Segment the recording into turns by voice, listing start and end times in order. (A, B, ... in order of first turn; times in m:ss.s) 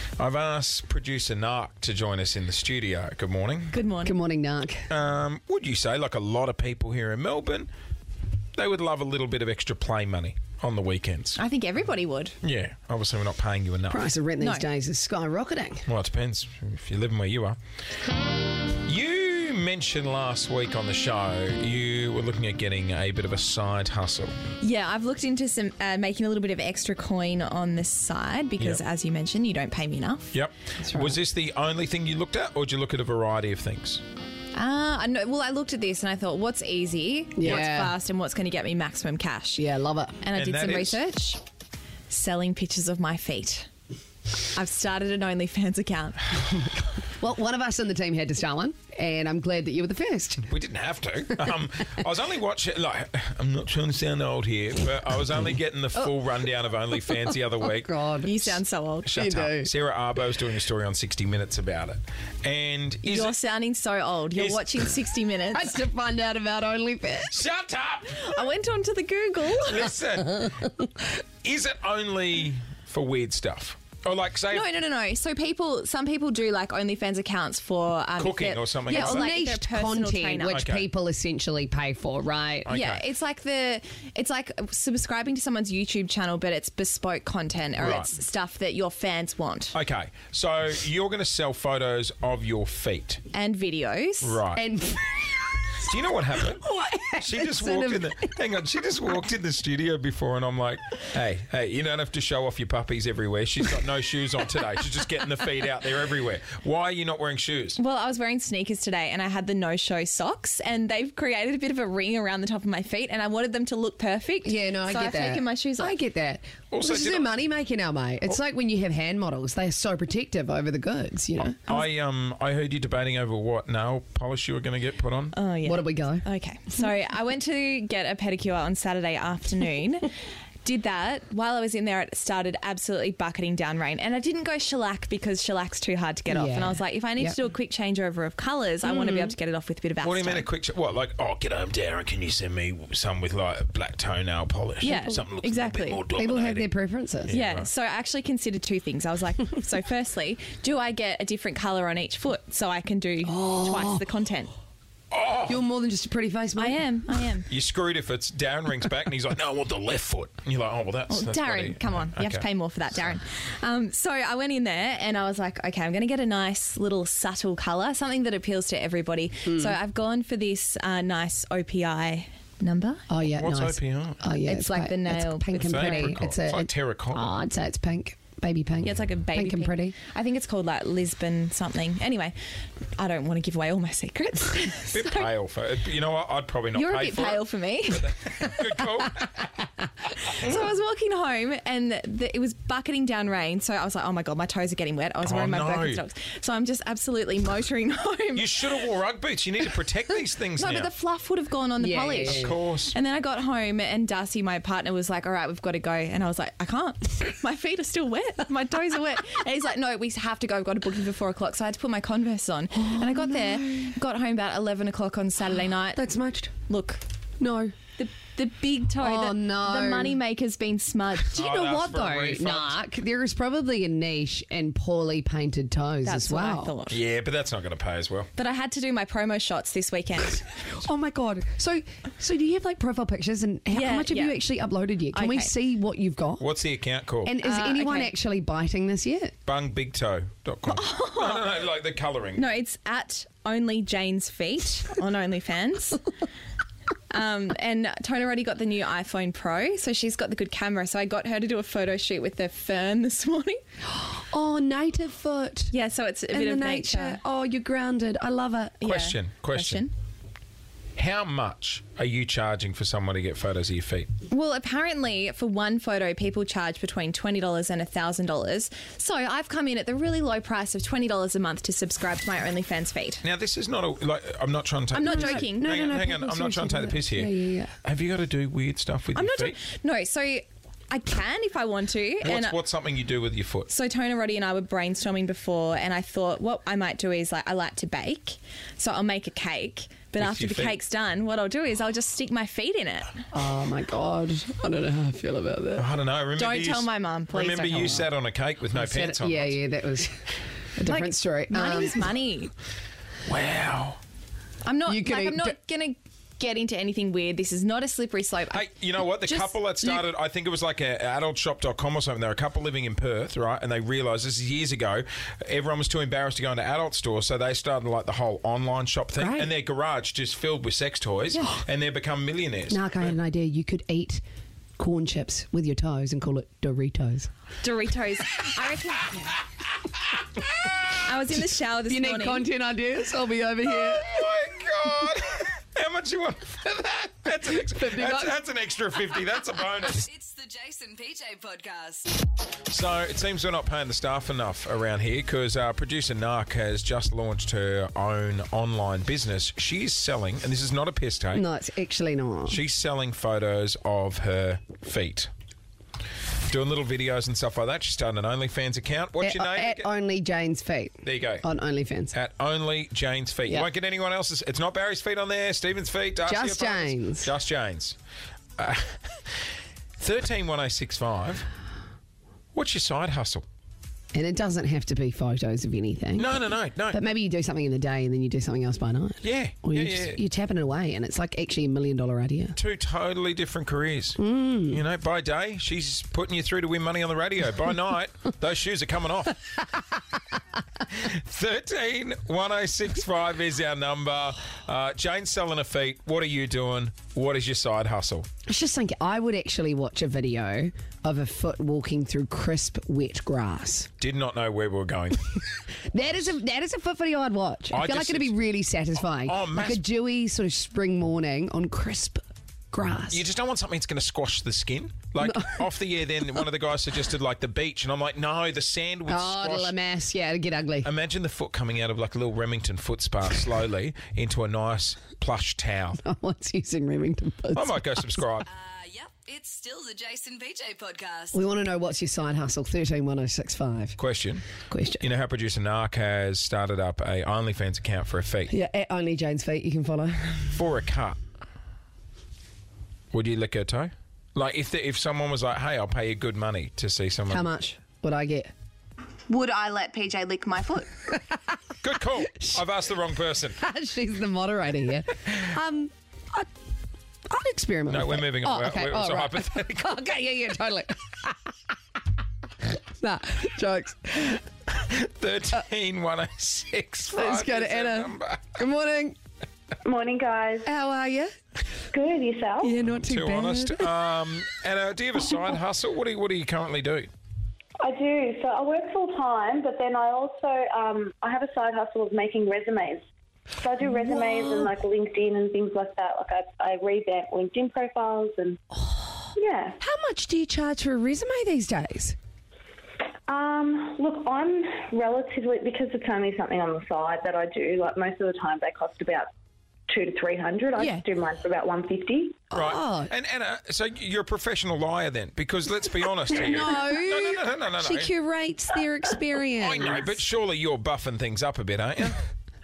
0:00.2-0:03.8 A
0:03.7-0:04.2 B
0:04.0-0:04.9 C
0:04.9-0:07.7 A
0:08.6-0:11.4 A
0:11.4-0:12.4 B
0:12.4-0:14.1 A
0:13.9-0:15.9 C
0:14.4-0:14.7 B
0:15.9-0:17.6 A
0:18.7-0:24.3 A
0:24.6-0:30.3 B
0:30.3-0:34.0 A
0:30.8-0:31.2 C
0:34.5-0:39.6 B
0:37.4-0:38.0 C
0:39.6-0:40.2 C
0:40.2-0:41.4 B
0:40.3-0:41.0 A
0:42.1-0:43.7 B
0:44.5-0:46.3 B
0:47.1-0:50.5 C
0:50.4-0:57.9 A
0:57.1-0:58.6 C
0:58.2-0:59.1 B
0:59.0-1:03.3 A
0:59.2-0:59.7 C
1:03.0-1:05.8 B
1:04.3-1:04.9 A
1:05.5-1:07.3 C
1:07.3-1:08.4 A
1:08.1-1:09.9 B
1:09.5-1:14.7 A
1:14.5-1:20.6 B
1:18.2-1:19.4 A
1:18.9-1:22.7 C
1:20.5-1:20.9 A
1:22.7-1:23.0 A
1:22.7-1:29.8 B
1:27.8-1:28.1 A
1:29.7-1:33.2 A
1:33.3-1:34.4 B
1:34.2-1:34.6 A
1:34.5-1:35.4 C
1:35.8-1:36.7 A
1:36.4-1:38.3 C
1:37.2-1:47.8 A
1:47.8-1:55.9 B
1:54.4-2:01.7 C
1:56.7-1:57.3 A
2:01.6-2:05.4 A
2:05.3-2:10.1 B
2:05.6-2:06.2 C
2:10.6-2:20.5 B
2:16.3-2:17.4 C
2:18.8-2:19.3 C
2:20.0-2:26.7 A
2:24.8-2:26.0 B
2:24.8-2:25.2 C
2:26.2-2:27.4 C
2:27.3-2:27.7 A
2:27.3-2:34.5 B
2:33.2-2:34.0 C
2:35.1-2:35.6 A
2:35.5-2:36.8 C
2:36.6-2:37.5 B
2:37.5-2:42.5 A
2:41.1-2:53.1 B
2:49.5-2:49.8 C
2:53.1-3:00.0 C
2:53.3-2:54.2 A
2:54.4-2:56.2 B
2:55.6-2:57.4 A
2:58.8-3:02.4 B
3:03.0-3:05.3 B
3:04.9-3:09.5 A
3:06.8-3:08.1 B
3:10.3-3:18.6 B
3:10.4-3:10.7 A
3:15.2-3:16.0 A
3:18.4-3:20.9 A
3:20.6-3:36.0 B
3:21.8-3:22.6 C
3:22.3-3:23.0 A
3:32.8-3:34.0 C
3:36.0-3:36.5 C
3:36.7-3:37.0 B
3:37.4-3:37.7 C
3:38.0-3:41.5 B
3:39.0-3:40.2 C
3:41.3-3:42.8 A
3:41.3-3:46.8 C
3:46.0-3:47.0 B
3:46.9-3:48.3 A
3:48.4-3:50.6 B
3:50.8-3:56.5 C
3:53.7-3:54.4 B
3:55.1-3:55.5 B
3:56.4-3:57.4 A
3:57.2-3:59.4 C
3:57.4-3:58.1 B
3:59.5-4:02.5 A
4:00.7-4:01.6 B
4:02.4-4:06.1 B
4:07.1-4:13.6 B
4:13.9-4:15.7 C
4:15.7-4:17.2 B
4:16.3-4:18.8 C
4:18.8-4:19.9 B
4:18.8-4:19.9 A
4:21.0-4:24.1 A
4:24.3-4:33.2 B
4:33.2-4:39.6 A
4:34.9-4:35.7 B
4:35.1-4:37.7 C
4:39.2-4:42.6 B
4:42.2-4:43.7 A
4:43.7-4:53.1 B
4:50.2-4:50.8 A
4:53.3-4:55.9 C
4:55.8-4:59.6 A
4:56.4-4:58.1 B
4:58.7-5:00.2 C
5:00.8-5:02.1 C
5:00.8-5:02.5 B
5:03.2-5:04.0 A
5:04.6-5:10.1 B
5:04.9-5:05.6 C
5:08.5-5:22.8 A
5:19.2-5:19.5 C
5:22.7-5:24.2 C
5:24.8-5:27.3 C
5:27.6-5:29.4 B
5:31.0-5:32.5 B
5:31.9-5:34.1 C
5:33.7-5:40.1 A
5:37.6-5:38.4 C
5:39.9-5:42.2 D
5:42.7-5:51.4 A
5:51.3-5:52.6 C
5:52.5-5:55.3 A
5:56.5-5:59.9 A
5:59.2-6:02.1 C
6:01.0-6:01.4 A
6:02.1-6:08.0 A
6:06.2-6:07.3 C
6:08.6-6:09.3 A
6:10.0-6:11.5 A
6:12.6-6:13.4 A
6:14.1-6:16.3 C
6:16.2-6:17.0 A
6:16.9-6:22.6 C
6:19.2-6:20.2 A
6:22.6-6:29.5 A
6:24.2-6:24.8 C
6:30.9-6:38.3 A
6:38.5-6:43.9 C
6:44.0-6:45.4 A
6:45.9-6:53.3 C
6:47.7-6:48.4 A
6:49.2-6:49.8 A
6:53.1-6:59.7 A
6:55.2-6:55.7 C
6:59.1-7:00.9 C
7:00.8-7:06.0 A
7:06.0-7:08.2 C
7:07.5-7:08.5 A
7:08.5-7:11.4 D
7:11.3-7:14.0 C
7:14.0-7:14.4 A
7:14.7-7:15.0 C
7:15.0-7:18.5 A
7:18.5-7:20.6 C
7:20.5-7:21.2 A
7:23.1-7:27.5 A
7:27.3-7:28.5 C
7:29.3-7:31.1 B
7:31.8-7:33.6 A
7:33.6-7:36.5 C
7:37.3-7:41.3 C
7:37.9-7:39.9 A
7:43.0-7:44.4 C
7:44.7-7:48.6 A
7:47.1-7:49.2 C
7:49.8-7:50.7 E
7:50.6-7:51.3 C
7:51.9-7:52.8 E
7:52.6-7:53.9 C
7:53.0-7:57.1 A
7:57.8-8:03.0 E
8:03.6-8:08.6 E
8:03.8-8:04.7 C
8:08.8-8:12.2 C
8:09.4-8:09.8 E
8:13.3-8:19.3 E
8:19.9-8:22.4 E
8:20.8-8:21.1 C
8:22.5-8:23.1 C
8:22.5-8:28.1 A
8:26.3-8:30.1 C
8:29.6-8:32.2 A